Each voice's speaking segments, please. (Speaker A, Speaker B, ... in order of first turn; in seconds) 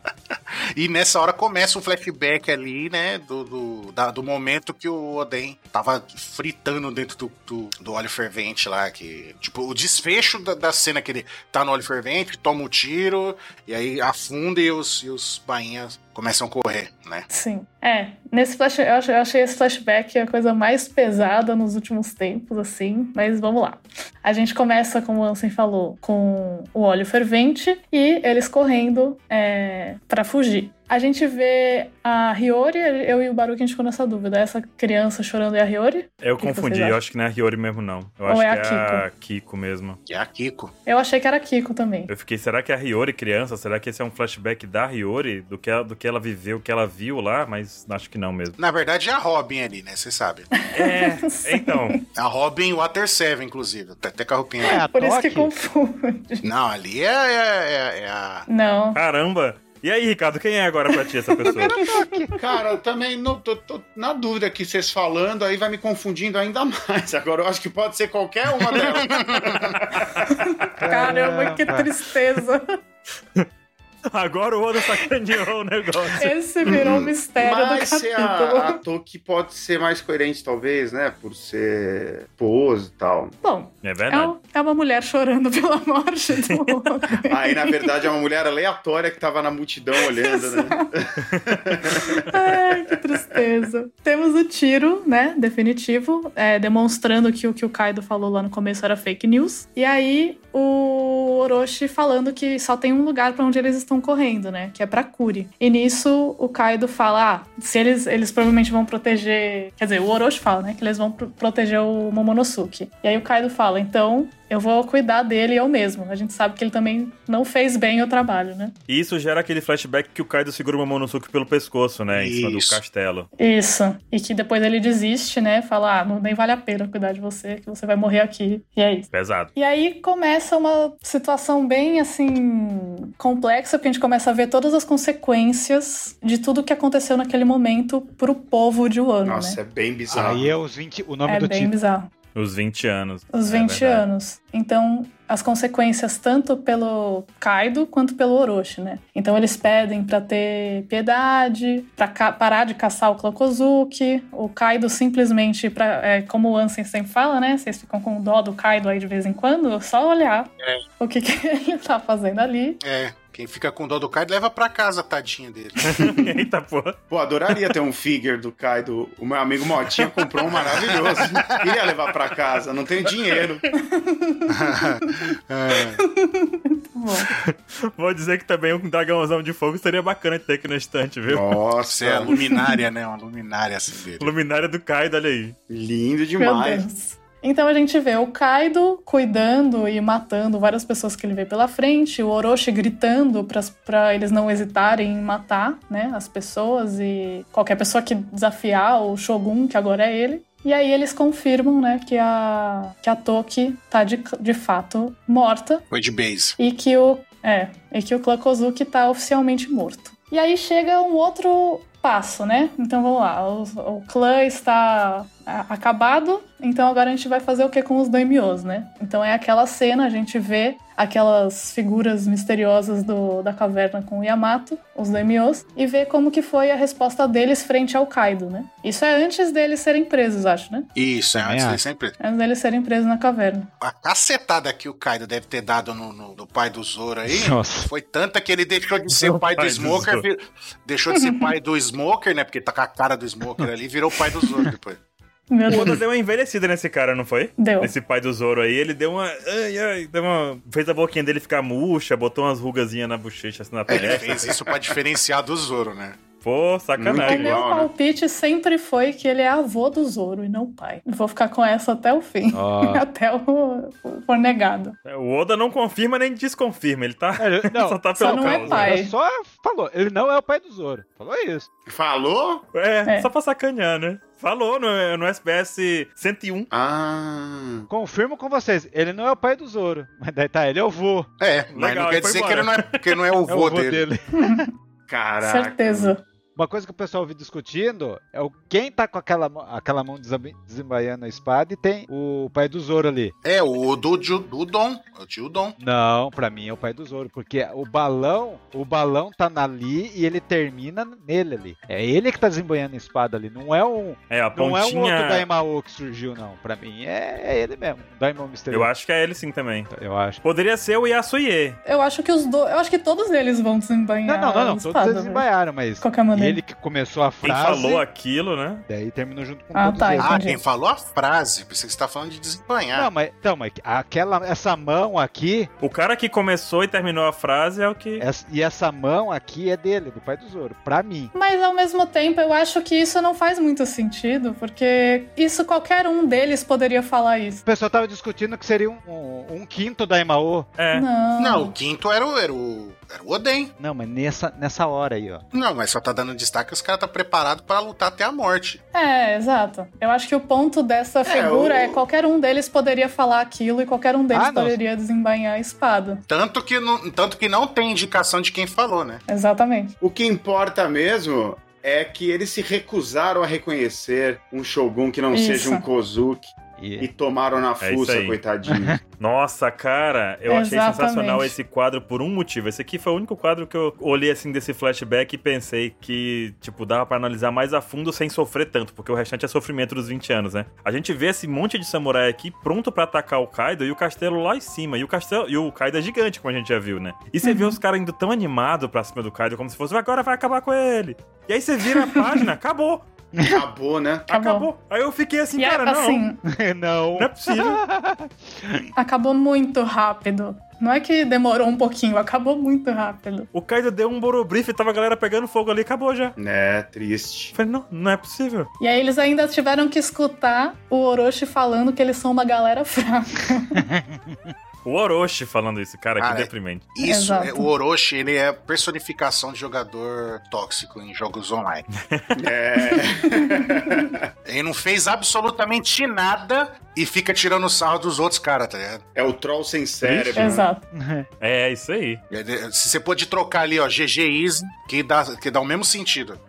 Speaker A: 0.3-17.3, 40.1-40.7, 48.6-50.5, 52.1-54.8, 56.4-58.5, 68.7-69.7, 122.1-122.8, 162.8-166.1, 170.6-171.6, 174.5-176.0, 181.9-184.3, 205.9-206.6, 231.0-232.2, 233.8-245.0, 253.9-256.2, 281.4-284.1, 293.4-295.8, 320.2-323.1, 341.4-343.7, 345.5-348.8, 356.3-359.2, 416.2-421.9, 424.4-429.0, 432.3-436.4
Speaker B: 17.3-37.0, 38.3-39.1, 40.9-42.1, 50.5-52.0, 54.7-56.5, 58.5-59.0, 61.4-62.0, 70.4-72.8, 76.1-78.8, 83.4-88.0, 90.0-90.9, 92.0-118.8, 123.4-139.6, 141.3-142.1, 143.3-162.8, 173.8-174.6, 176.0-177.3, 186.4-205.8, 206.6-230.9, 232.2-233.7, 241.1-241.5, 245.5-246.0, 247.6-247.9, 257.1-265.0, 268.2-269.1, 284.4-284.7, 285.4-286.2, 311.9-315.5, 316.0-316.6, 319.7-320.6, 331.3-337.6, 340.9-341.7, 348.9-356.2, 359.3-359.9, 365.3-365.9, 370.5-371.5, 387.4-387.8, 394.3-394.7, 395.6-396.4, 399.0-403.5, 408.8-413.8, 417.0-417.7, 430.4-430.9
Speaker C: 36.2-40.0, 42.1-48.6, 50.7-52.0, 59.0-61.8, 74.1-76.3, 83.8-84.3, 118.9-123.3, 129.1-129.5, 142.3-144.1, 165.8-167.0, 177.3-181.6, 184.2-185.6, 239.1-240.2, 245.7-254.5, 256.4-257.6, 265.1-269.0, 272.7-276.7, 281.7-283.0, 304.3-305.4, 308.7-309.9, 310.4-311.8, 317.4-318.9, 325.8-328.2, 340.8-341.1, 367.8-368.4, 369.2-393.0, 394.3-396.2, 397.2-397.8, 403.5-406.4, 407.6-408.7, 414.9-416.9, 422.0-422.4, 431.4-432.2
Speaker D: 54.6-55.5, 61.6-62.4, 70.8-71.9, 140.1-141.8, 231.4-231.8, 237.3-237.9, 262.5-263.1, 267.4-271.7, 277.9-281.3, 283.5-284.6, 286.6-293.3, 295.8-308.9, 309.9-310.4, 314.3-318.0, 318.9-320.4, 322.9-325.7, 328.2-331.3, 337.7-340.7, 343.8-345.4, 354.3-354.8, 366.8-367.1, 368.7-369.0, 396.4-398.9, 413.8-414.5, 430.9-431.3
Speaker E: 62.4-70.2, 76.7-83.4, 87.3-92.2, 139.2-140.5, 167.1-173.7, 181.3-182.4, 185.7-186.8, 253.9-254.5, 257.0-257.9, 271.9-272.6, 276.7-277.9, 285.1-286.2, 351.2-352.0, 360.0-369.0, 393.4-394.3, 406.4-407.6, 422.4-424.2, 429.1-430.7